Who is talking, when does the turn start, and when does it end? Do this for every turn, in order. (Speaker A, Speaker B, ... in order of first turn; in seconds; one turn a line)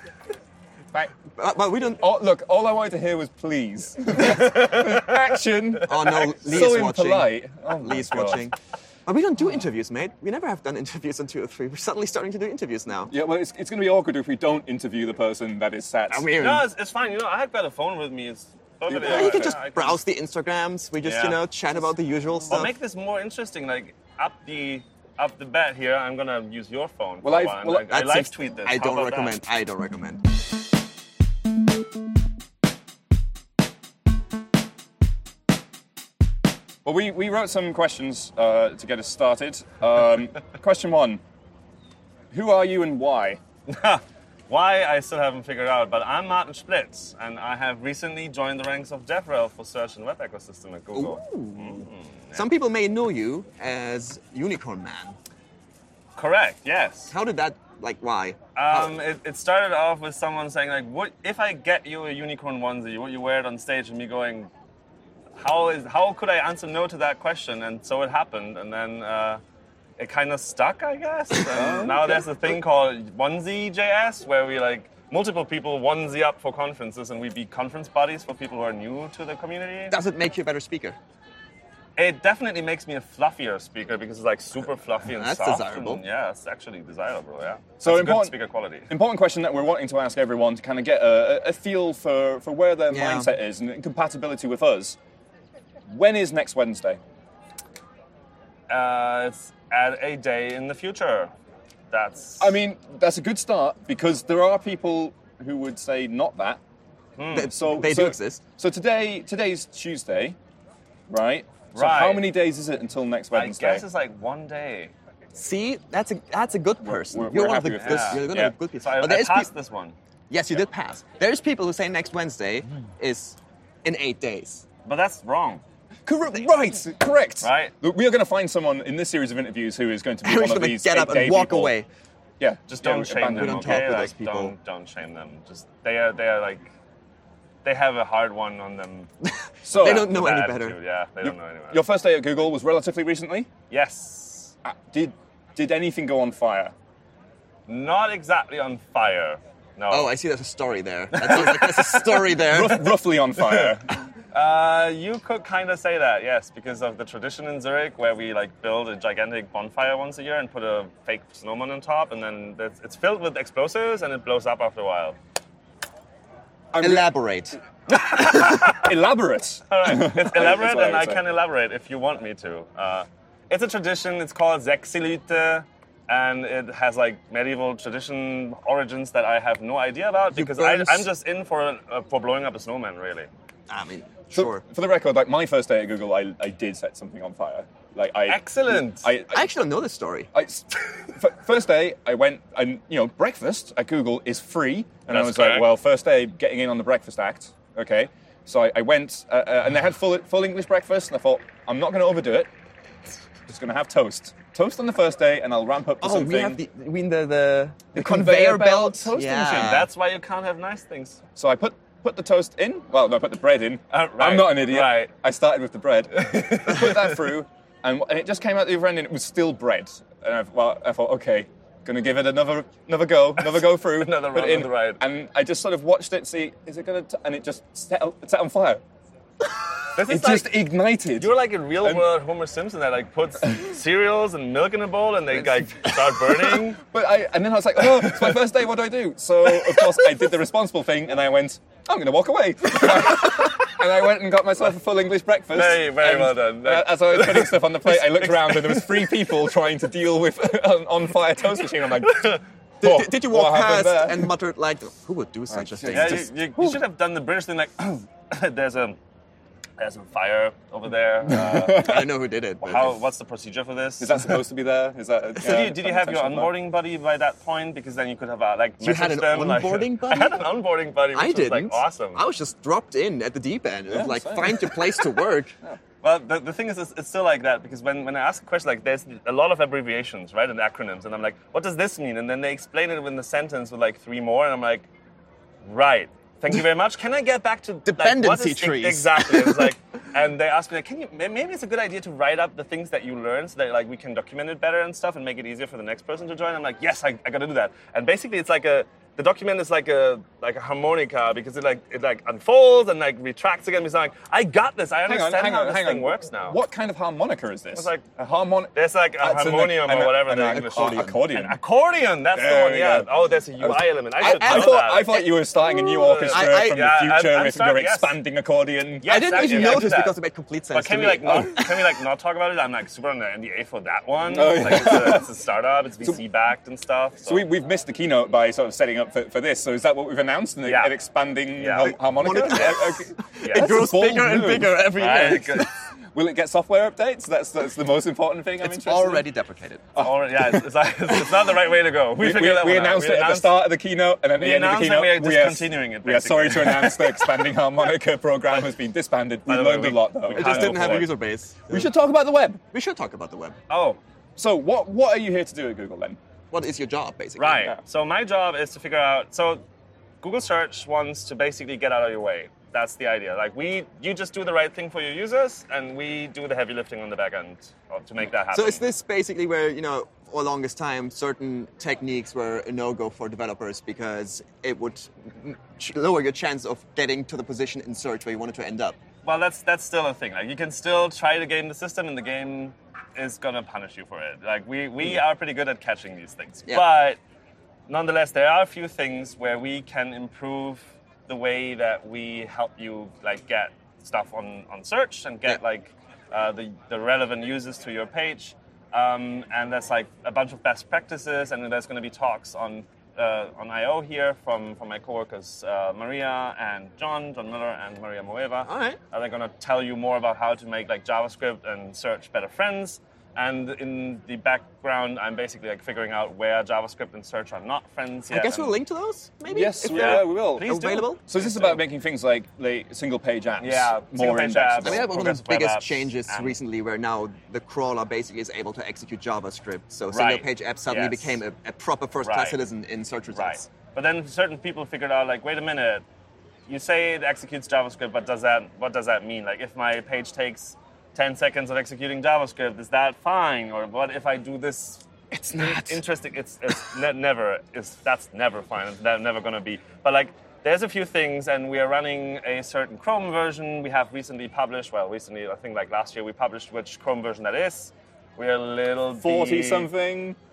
Speaker A: 1.4-2.0
Speaker B: 2.0-8.5
Speaker C: 4.2-5.1
Speaker A: 5.8-8.6
Speaker A: 9.1-13.1
Speaker B: 13.1-16.3
Speaker A: 16.1-16.7
Speaker C: 16.4-20.0
Speaker B: 18.9-19.6
Speaker A: 19.0-22.7
Speaker C: 21.0-21.4
Speaker C: 22.5-29.4
Speaker B: 27.2-27.9
Speaker A: 27.9-30.2
Speaker B: 36.9-41.2
Speaker B: 42.3-43.4
Speaker C: 43.7-52.5
Speaker A: 50.9-55.2
Speaker C: 56.2-57.1
Speaker A: 57.1-59.0
Speaker C: 58.6-64.5
Speaker C: 65.4-69.4
Speaker C: 70.0-80.0
Speaker B: 71.5-72.3
Speaker A: 79.9-81.0
Speaker C: 82.0-88.9
Speaker A: 85.1-86.0
Speaker B: 87.8-88.3
Speaker B: 88.9-95.0
Speaker A: 92.9-93.3
Speaker B: 95.9-97.0
Speaker C: 98.7-101.3
Speaker C: 101.9-102.5
Speaker B: 102.4-106.6
Speaker C: 107.2-107.5
Speaker A: 107.3-108.4
Speaker B: 107.5-110.4
Speaker B: 111.1-113.8
Speaker C: 111.7-112.3
Speaker C: 113.3-114.9
Speaker A: 115.3-119.5
Speaker B: 116.8-118.3
Speaker C: 117.7-120.0
Speaker A: 120.3-124.6
Speaker C: 124.8-125.6
Speaker B: 126.1-131.8
Speaker C: 127.4-127.7
Speaker A: 130.2-131.9
Speaker B: 132.4-134.0
Speaker C: 132.7-136.7
Speaker A: 133.3-134.5
Speaker C: 137.7-139.1
Speaker A: 139.2-140.8
Speaker B: 139.7-140.2
Speaker C: 139.8-141.8
Speaker B: 141.2-143.5
Speaker C: 143.7-144.5
Speaker B: 144.7-146.7
Speaker C: 147.7-150.1
Speaker A: 149.9-152.9
Speaker C: 151.1-152.1
Speaker B: 152.3-154.0
Speaker C: 153.4-153.8
Speaker C: 154.3-165.2
Speaker B: 166.7-167.1
Speaker A: 166.8-167.6
Speaker C: 167.9-168.9
Speaker B: 168.2-171.2
Speaker C: 169.7-183.3
Speaker A: 180.3-181.1
Speaker A: 183.7-184.6
Speaker B: 184.3-189.5
Speaker C: 188.3-189.1
Speaker A: 189.3-190.3
Speaker B: 190.3-202.5
Speaker C: 195.1-195.7
Speaker B: 203.5-206.6
Speaker A: 206.0-209.9
Speaker B: 207.9-209.8
Speaker C: 209.5-211.2
Speaker B: 211.4-228.8
Speaker C: 213.9-215.1
Speaker C: 216.1-217.3
Speaker C: 223.4-225.0
Speaker C: 229.9-230.6
Speaker B: 230.1-232.1
Speaker C: 231.2-236.8
Speaker B: 235.3-235.9
Speaker B: 236.7-254.3
Speaker C: 237.8-238.4
Speaker C: 239.5-240.0
Speaker C: 245.5-249.3
Speaker C: 251.6-252.4
Speaker A: 252.8-256.3
Speaker B: 255.5-256.8
Speaker C: 255.9-259.0
Speaker C: 259.8-262.0
Speaker B: 261.3-262.1
Speaker A: 261.8-263.0
Speaker C: 262.6-264.3
Speaker B: 264.0-266.5
Speaker C: 265.4-272.2
Speaker A: 268.8-270.5
Speaker A: 271.1-275.6
Speaker B: 273.9-275.8
Speaker C: 276.0-284.9
Speaker C: 285.6-306.6
Speaker A: 287.9-289.7
Speaker B: 305.1-311.6
Speaker C: 307.7-308.1
Speaker C: 308.7-315.2
Speaker A: 310.5-311.3
Speaker B: 312.4-320.0
Speaker A: 314.2-316.9
Speaker C: 315.9-318.2
Speaker C: 319.0-320.2
Speaker A: 319.1-321.9
Speaker C: 320.7-327.5
Speaker B: 324.3-325.3
Speaker B: 327.3-334.8
Speaker C: 330.6-330.9
Speaker C: 331.6-332.0
Speaker A: 331.8-335.7
Speaker C: 333.4-333.7
Speaker C: 334.9-335.7
Speaker B: 336.1-339.3
Speaker A: 338.6-339.9
Speaker B: 339.9-341.3
Speaker C: 340.0-343.6
Speaker B: 342.2-351.1
Speaker C: 344.4-347.5
Speaker C: 349.5-351.1
Speaker A: 350.3-351.9
Speaker B: 351.7-352.6
Speaker A: 352.7-353.6
Speaker C: 353.7-354.0
Speaker B: 354.4-356.2
Speaker A: 356.5-357.7
Speaker C: 357.4-359.6
Speaker C: 360.2-368.8
Speaker A: 368.5-379.0
Speaker C: 379.2-387.2
Speaker C: 387.9-418.8
Speaker A: 408.6-409.0
Speaker A: 418.3-421.2
Speaker B: 419.5-420.7
Speaker C: 419.9-421.8
Speaker B: 421.2-425.1
Speaker C: 423.6-426.6
Speaker A: 424.8-433.7
Speaker C: 430.1-431.4
Speaker C: 432.2-432.6
Speaker C: 433.3-436.0
Speaker C: 436.7-459.9
Speaker A: 445.3-446.0
Speaker B: 459.2-460.4